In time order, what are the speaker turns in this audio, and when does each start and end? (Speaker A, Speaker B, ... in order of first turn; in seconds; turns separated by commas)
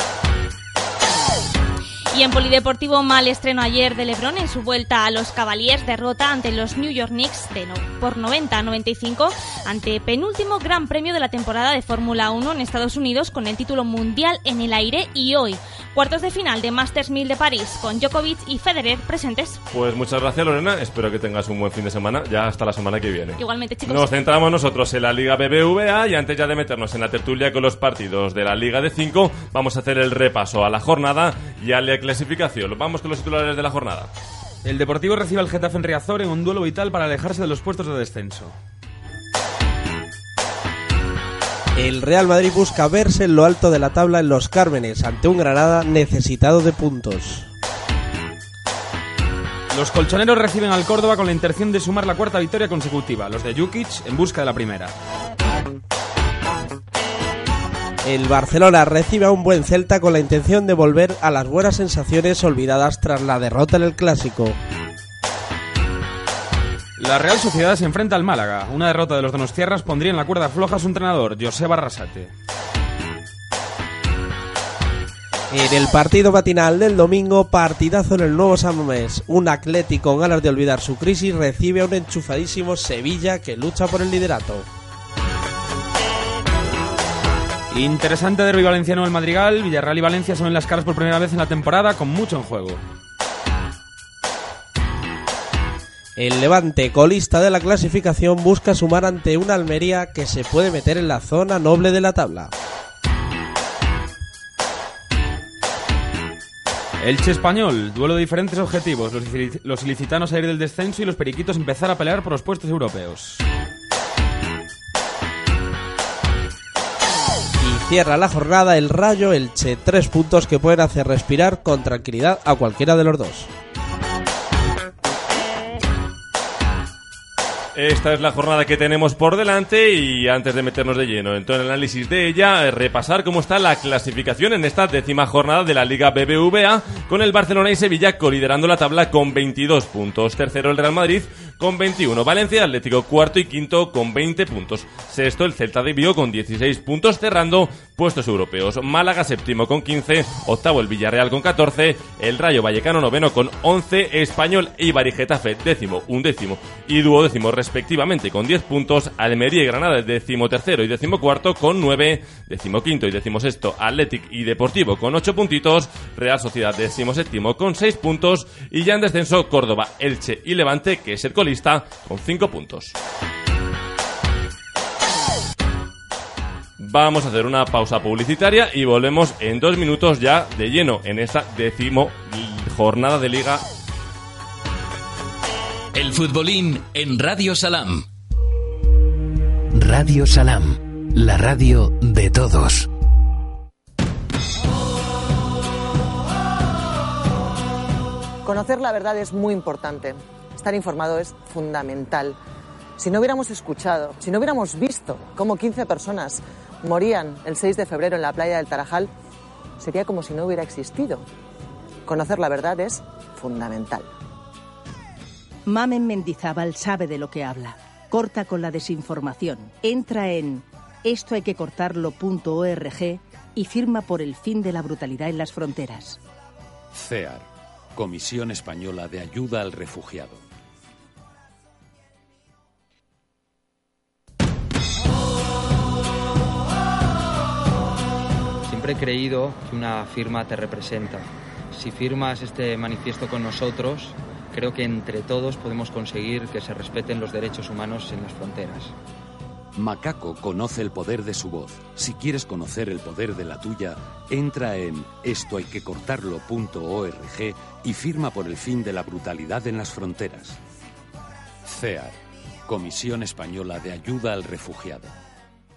Speaker A: 2.1-19.6, Speaker B: 19.7-34.1, Speaker A: 23.4-24.1, Speaker C: 34.6-38.6, Speaker D: 41.8-47.5, Speaker C: 49.7-54.9, Speaker D: 58.0-64.6, Speaker C: 67.0-72.3, Speaker D: 75.5-84.7, Speaker C: 87.7-92.8, Speaker D: 96.2-102.5, Speaker C: 107.0-113.4, Speaker D: 117.6-123.5, Speaker B: 127.8-172.9, Speaker B: 176.8-183.7, Speaker E: 185.9-188.1, Speaker E: 189.7-192.9, Speaker F: 198.4-202.4, Speaker F: 203.0-209.1, Speaker F: 209.8-211.2, Speaker F: 212.1-214.1, Speaker G: 215.7-226.2, Speaker H: 226.9-230.4, Speaker I: 238.7-248.9, Speaker H: 249.8-260.6, Speaker H: 261.6-265.1